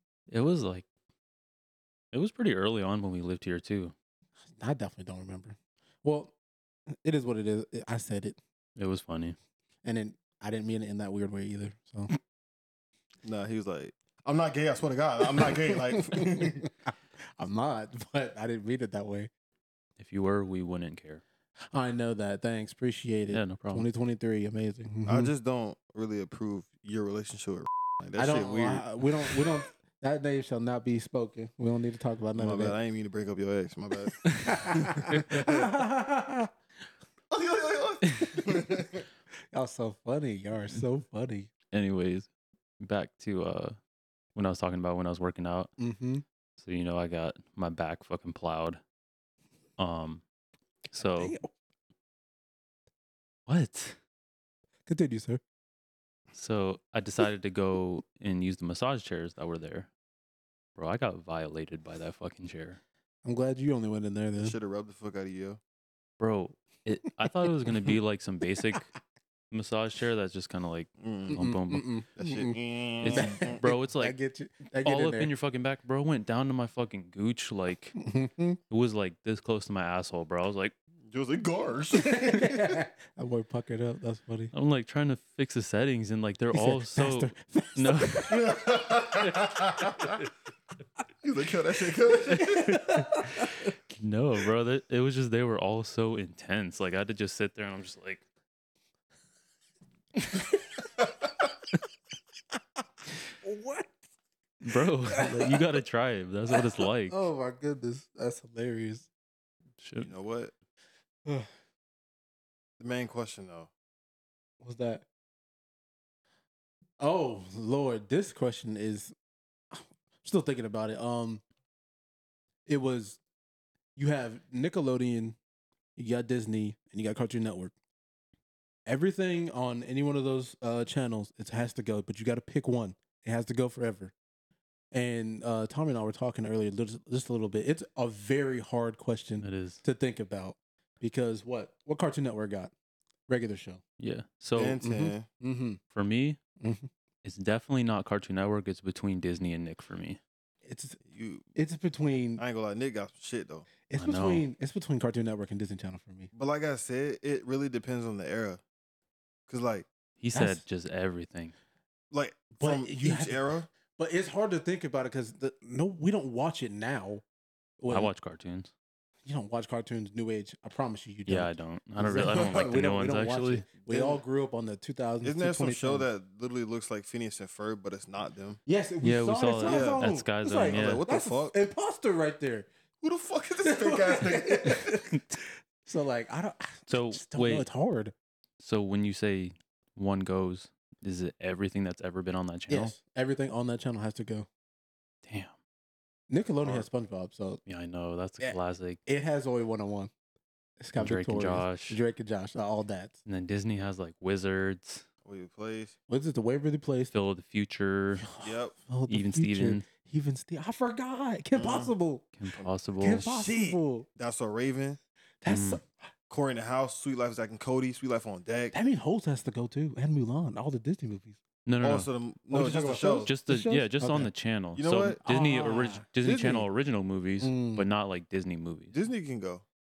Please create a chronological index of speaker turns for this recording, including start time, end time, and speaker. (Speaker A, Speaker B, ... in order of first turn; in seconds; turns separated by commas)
Speaker A: 0.3-0.9, Speaker A: 2.1-3.9, Speaker B: 4.5-6.3, Speaker B: 6.9-8.4, Speaker A: 8.8-9.4, Speaker B: 9.8-12.1, Speaker C: 13.2-16.6, Speaker B: 15.4-19.3, Speaker A: 20.0-21.2, Speaker B: 21.7-25.3, Speaker A: 23.3-23.9, Speaker C: 25.1-28.9, Speaker B: 28.2-32.8, Speaker C: 32.4-35.7, Speaker A: 34.3-34.6, Speaker B: 34.5-36.5, Speaker A: 35.1-35.4, Speaker C: 37.3-39.0, Speaker A: 38.1-38.4, Speaker B: 39.5-41.5, Speaker A: 41.7-42.3, Speaker A: 42.8-43.8, Speaker A: 44.4-45.7, Speaker B: 45.8-46.2, Speaker A: 46.6-48.8, Speaker A: 49.8-50.2, Speaker A: 50.9-51.4, Speaker B: 51.0-51.5, Speaker A: 53.5-54.0, Speaker B: 54.9-55.4, Speaker A: 56.3-59.9, Speaker A: 60.8-62.8, Speaker B: 63.2-64.6, Speaker C: 64.4-65.6, Speaker A: 66.2-68.9, Speaker A: 69.5-71.9, Speaker C: 71.0-71.4, Speaker B: 71.3-75.3, Speaker C: 72.2-73.6, Speaker A: 73.0-74.2, Speaker A: 74.8-78.0, Speaker B: 78.0-78.6, Speaker A: 78.7-80.8, Speaker C: 81.1-82.8, Speaker B: 82.0-84.5, Speaker A: 84.5-88.4, Speaker B: 86.5-88.4, Speaker C: 88.3-90.2, Speaker C: 91.2-92.8, Speaker A: 92.3-98.2, Speaker B: 92.4-93.7, Speaker B: 100.2-100.8, Speaker B: 103.4-103.9, Speaker A: 104.6-107.2, Speaker B: 105.1-105.7, Speaker B: 106.5-109.1, Speaker A: 109.8-110.1, Speaker C: 110.0-110.5, Speaker C: 112.8-113.7, Speaker B: 114.6-115.1, Speaker B: 117.0-119.1, Speaker B: 119.7-121.4, Speaker B: 122.7-123.2, Speaker B: 124.0-125.4, Speaker B: 126.0-127.7, Speaker B: 128.9-134.1, Speaker B: 134.9-142.7, Speaker A: 139.4-139.8, Speaker B: 143.3-143.8, Speaker A: 144.0-144.8, Speaker C: 144.6-145.3, Speaker B: 144.8-145.8, Speaker A: 145.9-146.4, Speaker B: 146.6-146.9, Speaker A: 147.2-150.2, Speaker B: 150.6-151.0, Speaker C: 151.1-151.5, Speaker B: 151.6-152.4, Speaker C: 152.4-153.7, Speaker B: 153.9-156.3, Speaker A: 153.9-154.5, Speaker C: 156.3-158.6, Speaker C: 159.5-159.9, Speaker A: 160.2-161.5, Speaker B: 160.3-160.6, Speaker C: 162.1-163.7, Speaker B: 162.6-167.2, Speaker B: 167.8-168.1, Speaker A: 167.9-168.7, Speaker B: 169.2-176.1, Speaker A: 171.3-173.7, Speaker C: 172.1-172.6, Speaker C: 173.8-174.2, Speaker C: 175.2-178.6, Speaker B: 178.7-182.7, Speaker A: 179.0-181.0, Speaker C: 179.6-180.1, Speaker C: 180.6-181.6, Speaker C: 183.0-184.9, Speaker B: 183.6-188.1, Speaker A: 184.9-185.4, Speaker A: 186.9-187.7, Speaker A: 188.6-192.9, Speaker B: 192.7-194.5, Speaker A: 195.2-195.6, Speaker B: 196.3-197.6, Speaker A: 197.7-199.0, Speaker B: 198.4-200.1, Speaker B: 200.8-203.2, Speaker A: 201.0-202.0, Speaker A: 203.3-205.1, Speaker C: 205.2-205.9, Speaker B: 206.1-207.1, Speaker A: 207.1-208.3, Speaker B: 208.2-212.3, Speaker C: 208.4-208.8, Speaker A: 209.1-209.8, Speaker C: 211.5-211.9, Speaker A: 212.4-213.4, Speaker B: 213.0-214.1, Speaker C: 213.2-215.0, Speaker B: 215.4-215.8, Speaker A: 215.5-215.8, Speaker C: 216.3-218.8, Speaker B: 218.7-221.4, Speaker A: 221.7-222.1, Speaker C: 221.8-223.3, Speaker B: 222.5-224.3, Speaker A: 223.2-229.0, Speaker C: 224.8-225.2, Speaker B: 225.2-226.1, Speaker C: 226.2-226.6, Speaker B: 227.4-227.9, Speaker C: 228.9-229.6